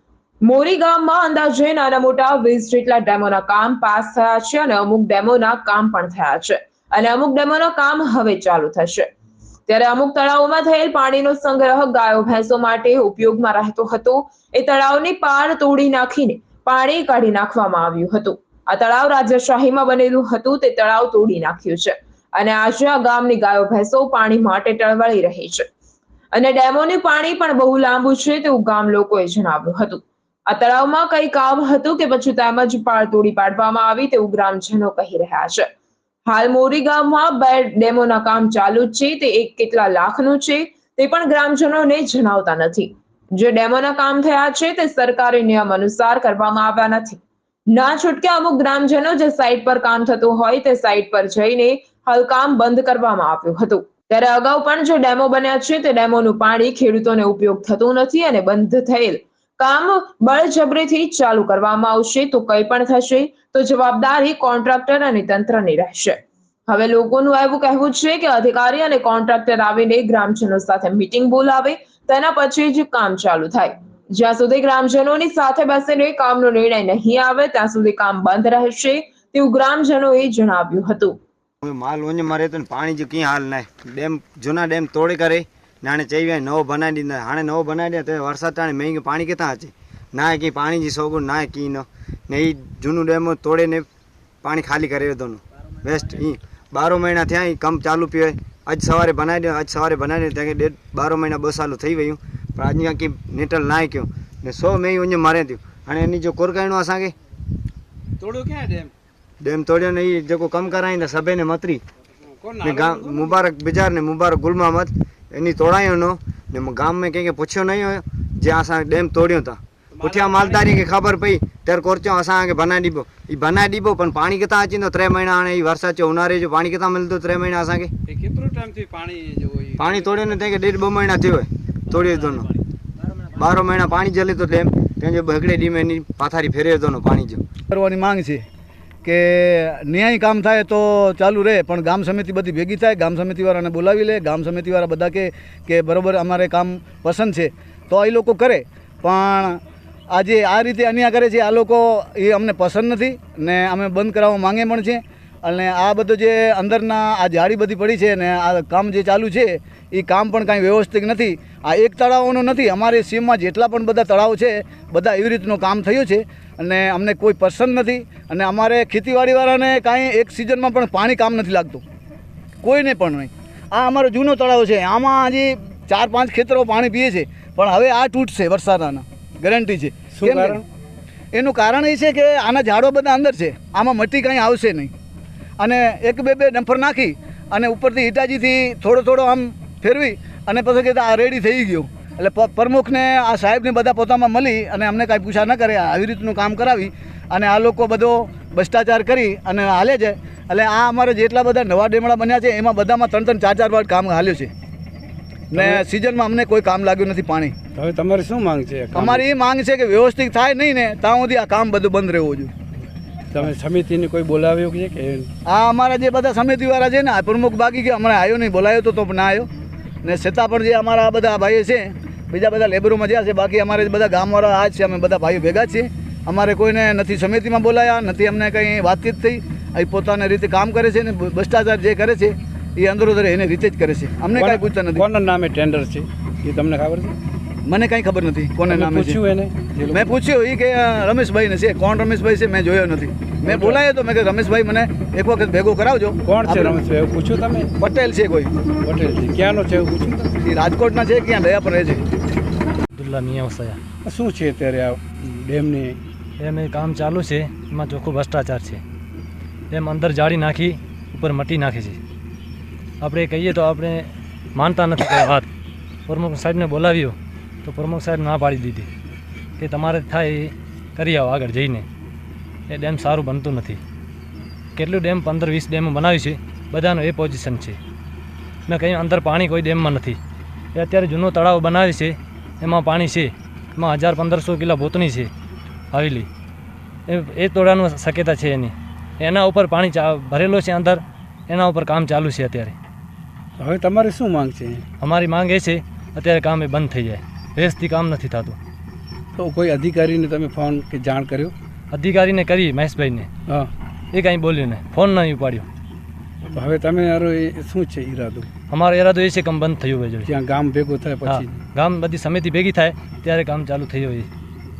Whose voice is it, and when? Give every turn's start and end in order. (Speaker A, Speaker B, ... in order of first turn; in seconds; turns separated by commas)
Speaker A: 0.4-9.1, Speaker A: 9.7-25.7, Speaker A: 26.3-35.7, Speaker A: 36.3-81.2, Speaker B: 81.6-93.8, Speaker B: 94.4-107.1, Speaker C: 108.2-108.9, Speaker B: 109.4-111.8, Speaker C: 112.4-113.2, Speaker B: 112.6-127.9, Speaker C: 120.0-120.7, Speaker C: 128.1-130.3, Speaker B: 129.8-132.5, Speaker B: 133.3-137.4, Speaker D: 137.7-138.4, Speaker D: 139.0-149.6, Speaker D: 150.1-171.8, Speaker D: 172.6-180.6, Speaker C: 180.2-180.6, Speaker D: 181.3-184.9, Speaker D: 185.6-204.5, Speaker D: 205.5-207.5, Speaker C: 207.8-209.1, Speaker D: 208.9-212.5, Speaker C: 213.3-215.3, Speaker D: 215.4-219.5, Speaker D: 220.0-235.0, Speaker C: 234.4-237.1, Speaker D: 237.7-239.2, Speaker C: 238.7-239.9, Speaker D: 239.9-246.8, Speaker C: 246.3-247.7, Speaker D: 247.8-248.5, Speaker C: 248.8-250.3, Speaker D: 250.4-252.0, Speaker E: 252.9-253.8, Speaker C: 254.1-256.0, Speaker E: 256.4-258.8, Speaker E: 259.7-262.0, Speaker E: 263.0-265.5, Speaker E: 266.1-268.9, Speaker E: 269.6-271.9, Speaker E: 272.7-273.8, Speaker E: 274.8-277.8, Speaker E: 278.7-280.2, Speaker E: 280.7-285.3, Speaker E: 285.9-286.3, Speaker E: 287.1-292.7, Speaker C: 293.6-294.8, Speaker E: 295.0-298.6, Speaker C: 299.4-301.5, Speaker E: 301.9-303.3, Speaker E: 304.1-305.6, Speaker C: 306.5-308.4, Speaker E: 308.7-310.3, Speaker C: 310.4-311.4, Speaker E: 311.2-314.3